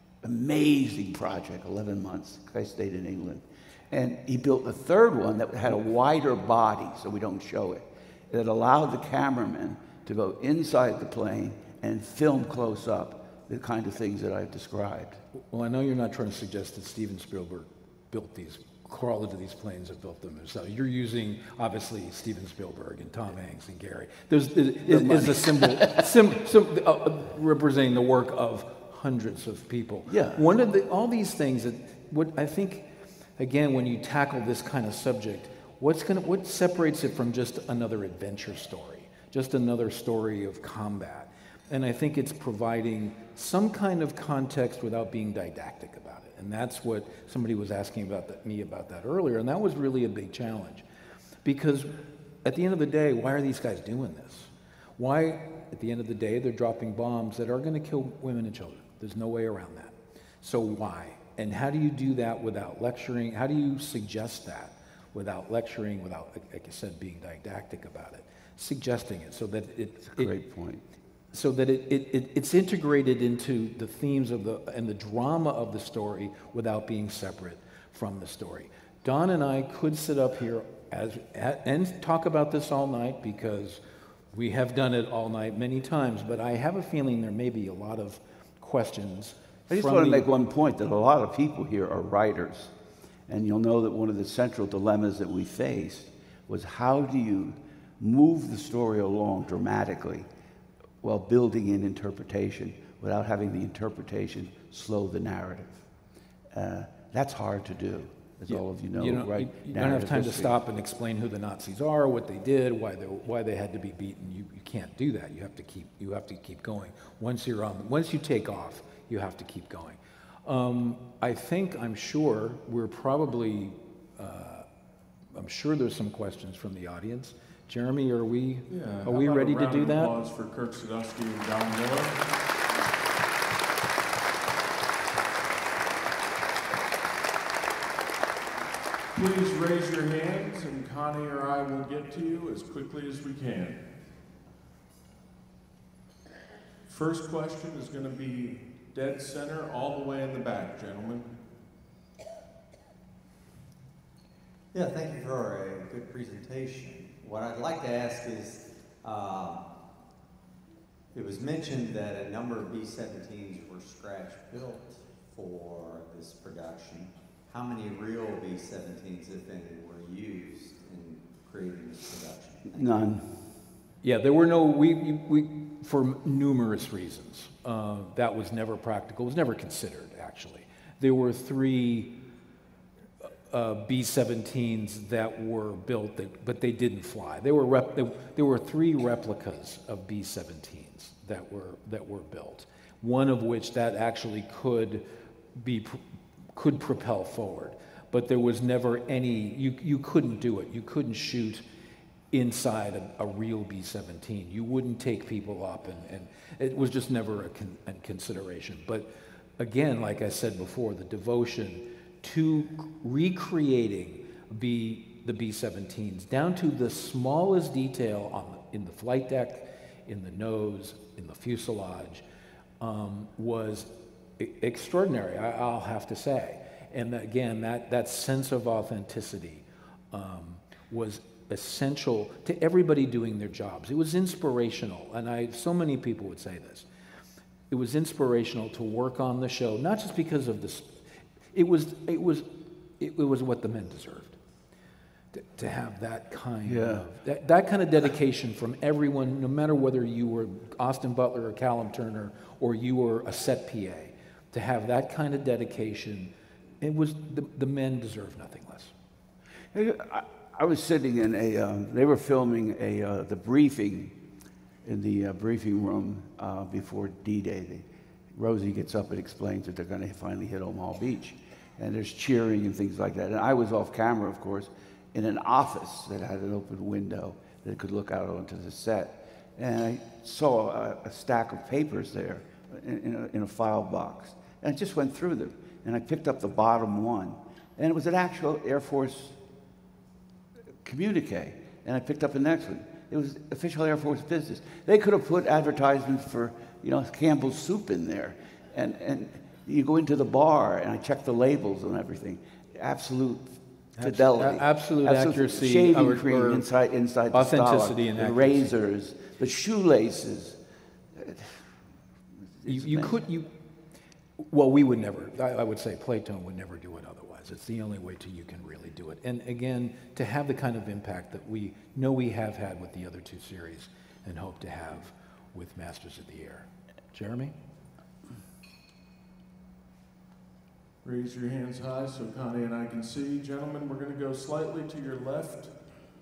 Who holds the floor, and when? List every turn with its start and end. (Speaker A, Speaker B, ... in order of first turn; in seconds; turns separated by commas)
Speaker A: 0.2-15.2, Speaker B: 15.4-50.9, Speaker A: 24.9-26.1, Speaker A: 30.1-30.4, Speaker B: 51.4-51.9, Speaker B: 52.4-70.3, Speaker A: 70.1-70.8, Speaker B: 71.3-83.8, Speaker B: 84.3-90.3, Speaker A: 89.7-92.7, Speaker A: 93.3-100.3, Speaker A: 101.0-105.9, Speaker A: 106.5-110.6, Speaker B: 108.5-124.7, Speaker B: 125.3-130.1, Speaker C: 128.7-132.2, Speaker C: 139.1-143.8, Speaker C: 146.9-151.3, Speaker D: 154.7-159.7, Speaker D: 161.1-173.0, Speaker A: 172.7-173.3, Speaker B: 174.0-182.2, Speaker B: 183.2-196.0, Speaker B: 196.6-201.6, Speaker B: 202.3-222.2, Speaker B: 222.8-236.9, Speaker B: 237.7-240.9, Speaker B: 241.5-244.4, Speaker B: 245.3-258.9, Speaker A: 246.7-247.1, Speaker A: 259.7-264.2, Speaker A: 264.9-289.4, Speaker A: 290.8-310.6, Speaker B: 304.0-306.7, Speaker B: 307.3-308.7, Speaker A: 311.1-311.6, Speaker A: 312.6-313.2, Speaker B: 312.7-313.5, Speaker B: 314.5-327.5, Speaker C: 331.0-335.7